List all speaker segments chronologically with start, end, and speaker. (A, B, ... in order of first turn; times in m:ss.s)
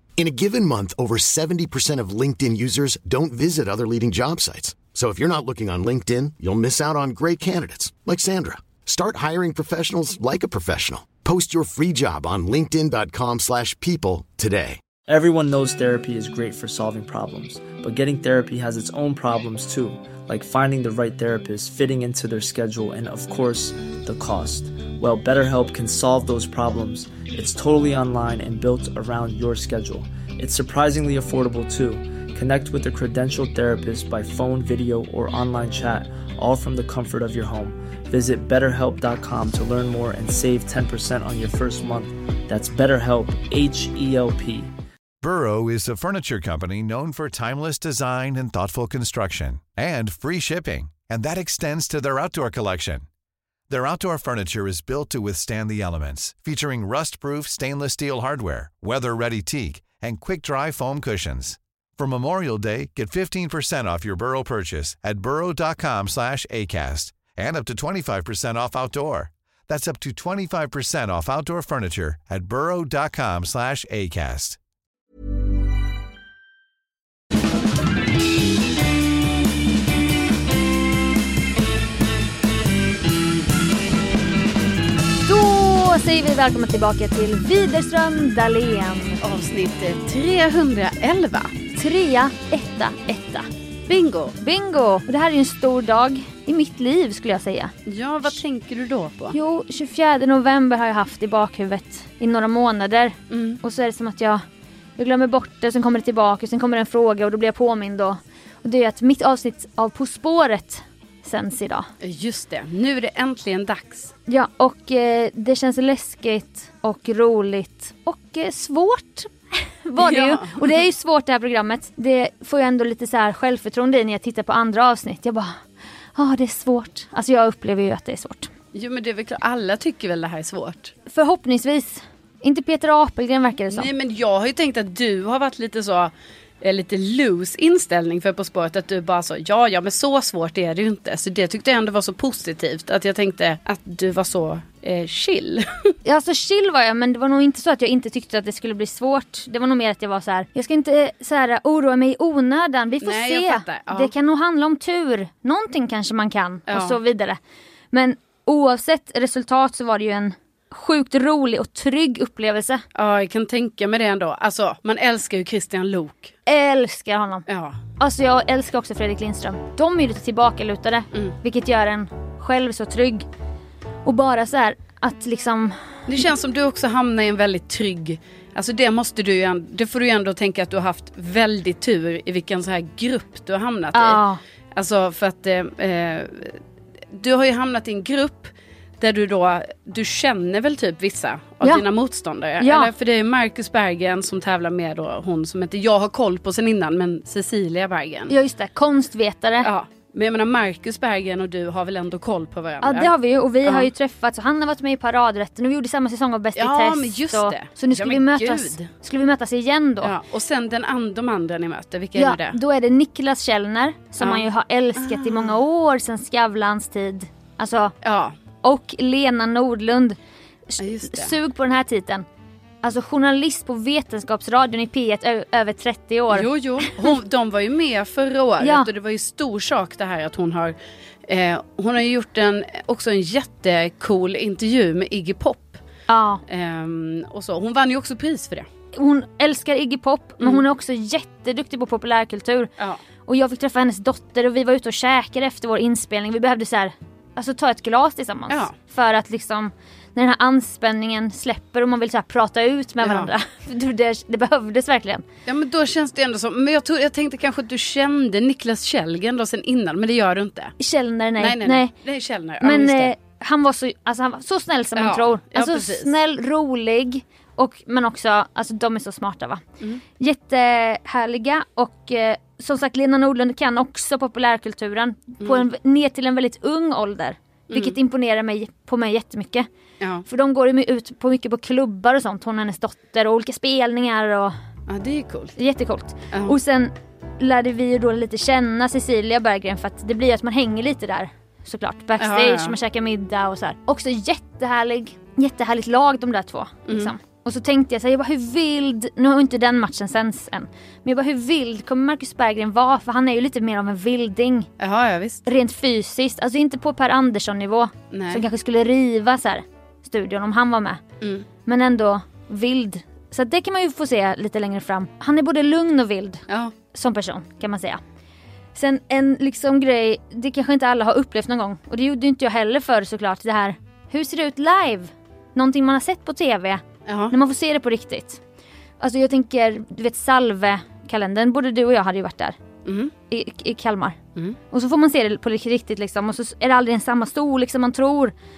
0:00.2-0:14.8 A
0:15.1-0:44.7 B
0:45.2-0:53.0 C
0:53.7-1:14.6 C
1:25.2-1:29.2 D
1:29.2-1:31.5 E
1:31.8-1:33.5 D
1:33.9-1:34.4 E
1:34.4-1:37.7 D
1:37.8-1:39.4 E
1:39.3-1:44.4 D
1:43.3-1:43.6 E
1:45.0-1:51.9 D
1:52.0-1:54.1 E
1:54.3-2:05.5 D
2:00.0-2:00.8 E
2:06.1-2:08.5 D
2:08.7-2:10.9 E
2:11.1-2:13.9 D
2:13.7-2:25.9 E
2:26.0-2:37.4 D
2:33.0-2:34.1 E
2:36.7-2:37.0 E
2:37.9-2:42.8 D
2:42.9-2:46.3 E
2:46.5-2:47.4 D
2:47.5-2:47.8 E
2:48.0-2:53.2 D
2:54.0-2:55.8 D
2:56.1-3:04.2 E
3:03.9-3:04.4 D
3:04.7-3:06.6 E
3:07.1-3:18.3 E
3:12.6-3:12.9 D
3:18.3-3:19.7 D
3:19.6-3:23.1 E
3:22.8-3:30.1 D
3:23.6-3:23.9 E
3:26.6-3:28.9 E
3:30.0-3:32.6 E
3:32.1-3:37.9 D
3:34.2-3:35.6 E
3:38.0-3:38.3 E
3:38.6-3:40.2 D
3:40.7-3:42.2 D
3:40.8-3:41.3 E
3:42.8-3:46.5 D
3:46.3-3:50.8 E
3:48.6-3:48.9 D
3:51.3-3:55.8 E
3:56.1-3:56.4 D
3:56.5-3:58.7 E
3:58.9-4:02.7 D
4:03.2-4:15.2 D
4:13.0-4:13.3 E
4:15.4-4:20.7 E
4:20.8-4:21.9 D
4:21.4-4:23.1 E
4:22.6-4:29.6 D
4:25.0-4:26.1 E
4:30.2-4:39.7 D
4:37.7-4:38.0 E
4:40.0-4:40.2 E
4:40.3-4:44.5 D
4:44.9-4:45.5 E
4:45.6-5:04.7 D
4:46.3-4:46.6 E
4:52.2-4:52.8 E
4:56.9-4:57.1 E
5:04.8-5:05.4 E
5:05.4-5:11.0 D
5:08.1-5:08.4 E
5:11.2-5:11.5 E
5:11.6-5:16.4 D
5:16.5-5:16.7 E
5:16.9-5:18.0 D
5:18.7-5:28.4 D
5:27.0-5:27.3 E
5:29.0-5:32.6 D
5:32.8-5:33.1 E
5:33.3-5:34.2 D
5:34.7-5:38.3 D